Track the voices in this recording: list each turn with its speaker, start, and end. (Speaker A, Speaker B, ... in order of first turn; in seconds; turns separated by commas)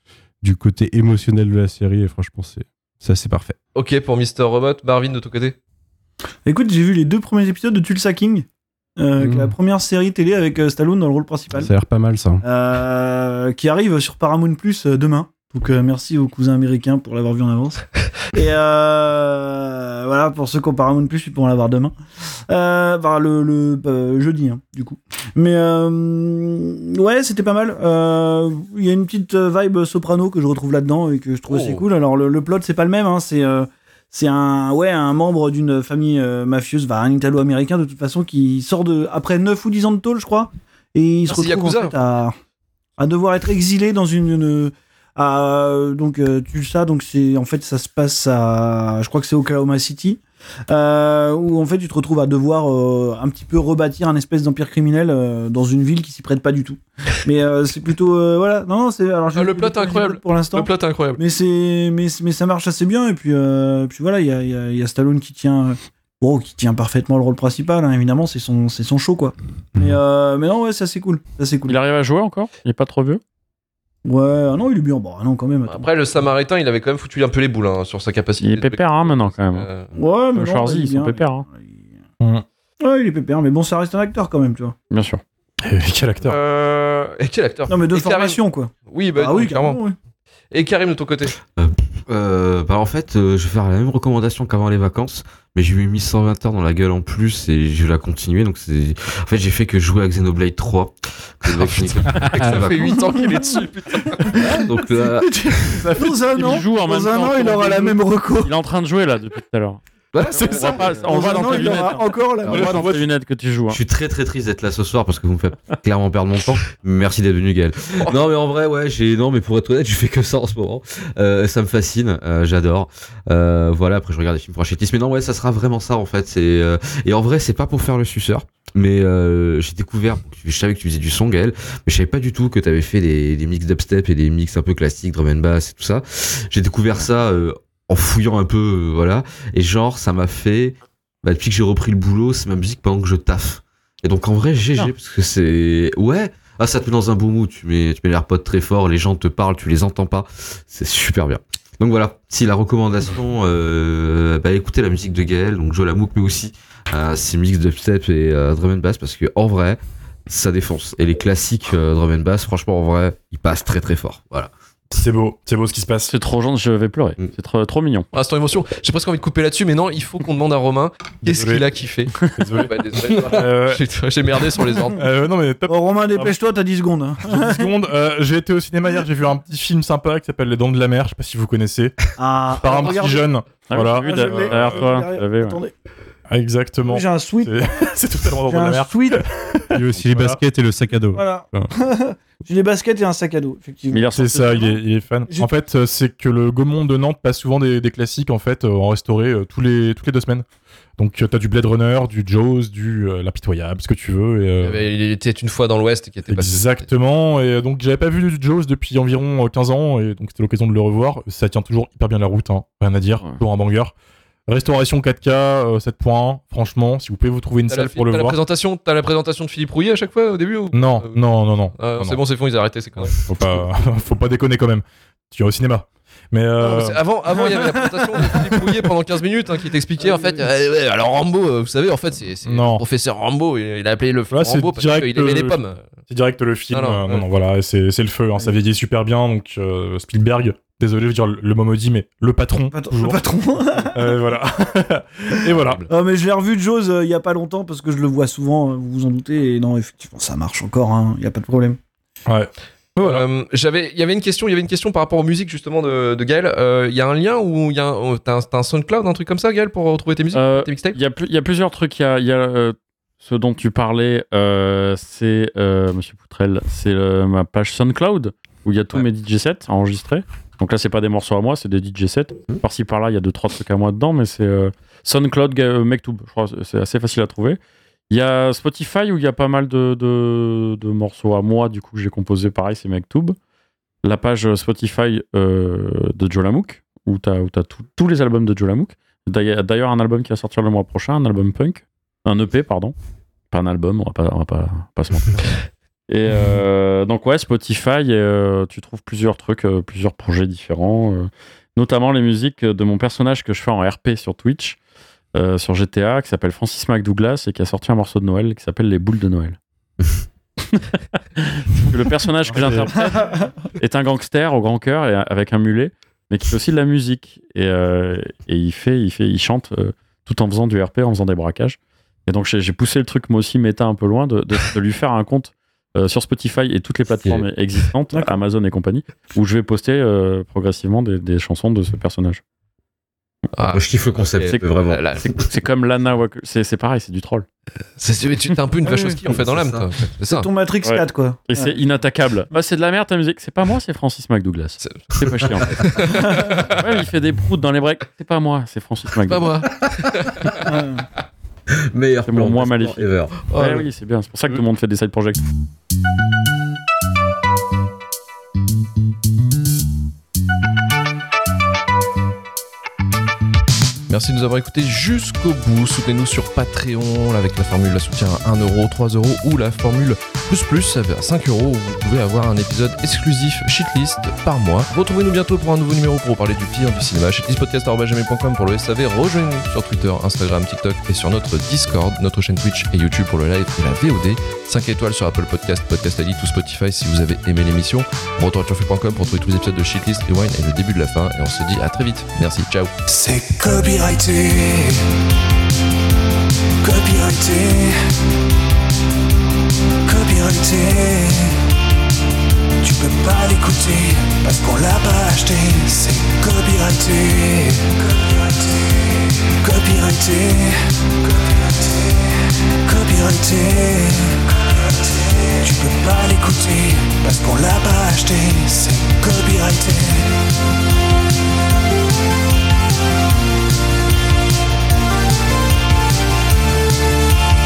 Speaker A: 0.4-3.6, Speaker B: 3.7-5.5, Speaker C: 6.5-8.4, Speaker C: 9.0-11.7, Speaker A: 9.2-9.5, Speaker A: 11.5-12.4, Speaker C: 12.4-21.9, Speaker C: 22.5-42.3, Speaker B: 31.5-31.8, Speaker B: 41.3-41.9, Speaker C: 43.0-71.8, Speaker B: 59.3-61.2, Speaker D: 71.7-73.2, Speaker C: 74.0-75.9, Speaker B: 75.7-79.9, Speaker D: 78.4-79.7, Speaker C: 79.9-81.9, Speaker D: 80.3-81.5, Speaker C: 82.8-84.7, Speaker D: 84.9-85.2, Speaker E: 85.6-86.4, Speaker B: 86.2-89.8, Speaker C: 87.7-90.0, Speaker B: 90.5-91.3, Speaker F: 91.5-103.0, Speaker B: 101.5-104.4, Speaker E: 102.1-102.6, Speaker C: 103.2-103.6, Speaker C: 104.2-108.5, Speaker F: 104.5-105.9, Speaker E: 105.8-106.1, Speaker D: 106.3-109.8, Speaker F: 110.1-110.8, Speaker E: 110.3-110.8, Speaker D: 110.4-113.8, Speaker C: 111.0-112.7, Speaker F: 112.5-112.8, Speaker E: 112.5-113.0, Speaker F: 113.7-164.9, Speaker E: 164.9-166.1, Speaker D: 166.1-168.1, Speaker B: 168.1-175.0, Speaker E: 171.2-171.6, Speaker E: 172.2-173.8, Speaker E: 174.9-176.3, Speaker C: 175.7-177.7, Speaker E: 177.2-181.9, Speaker C: 182.2-183.3, Speaker E: 182.5-184.8, Speaker D: 183.7-185.6, Speaker C: 183.9-185.7, Speaker E: 186.3-190.4, Speaker C: 186.8-189.7, Speaker A: 189.7-191.7, Speaker C: 191.1-194.7, Speaker D: 193.9-194.8, Speaker E: 194.1-200.4, Speaker C: 195.3-195.5, Speaker E: 201.0-204.8, Speaker B: 204.6-206.9, Speaker E: 206.3-213.9, Speaker E: 214.5-218.4, Speaker B: 217.7-223.2, Speaker E: 220.7-222.2, Speaker E: 223.2-227.0, Speaker B: 226.6-235.9, Speaker C: 227.3-228.8, Speaker C: 230.0-230.4, Speaker E: 232.4-232.8, Speaker E: 234.3-235.6, Speaker E: 236.1-243.2, Speaker B: 236.7-237.2, Speaker C: 242.7-244.3, Speaker E: 243.8-245.8, Speaker C: 245.3-251.8, Speaker B: 245.5-245.9, Speaker E: 252.2-253.2, Speaker B: 253.0-261.0, Speaker D: 260.3-277.6, Speaker D: 278.1-283.4, Speaker D: 284.0-292.9, Speaker D: 293.5-295.5, Speaker D: 296.1-304.8, Speaker D: 305.3-309.6, Speaker D: 310.6-313.2, Speaker C: 312.5-313.5, Speaker D: 313.7-332.4, Speaker B: 333.6-335.5, Speaker F: 333.7-335.4, Speaker D: 335.2-337.4, Speaker B: 338.0-340.5, Speaker F: 339.3-339.9, Speaker C: 340.3-341.7, Speaker D: 340.8-349.6, Speaker B: 344.8-346.8, Speaker B: 349.2-350.6, Speaker C: 350.6-351.0, Speaker F: 351.7-353.4, Speaker D: 352.2-355.4, Speaker B: 353.5-353.9, Speaker B: 364.1-392.9, Speaker G: 393.1-395.1, Speaker G: 396.8-398.1, Speaker G: 400.0-401.7, Speaker G: 402.8-420.5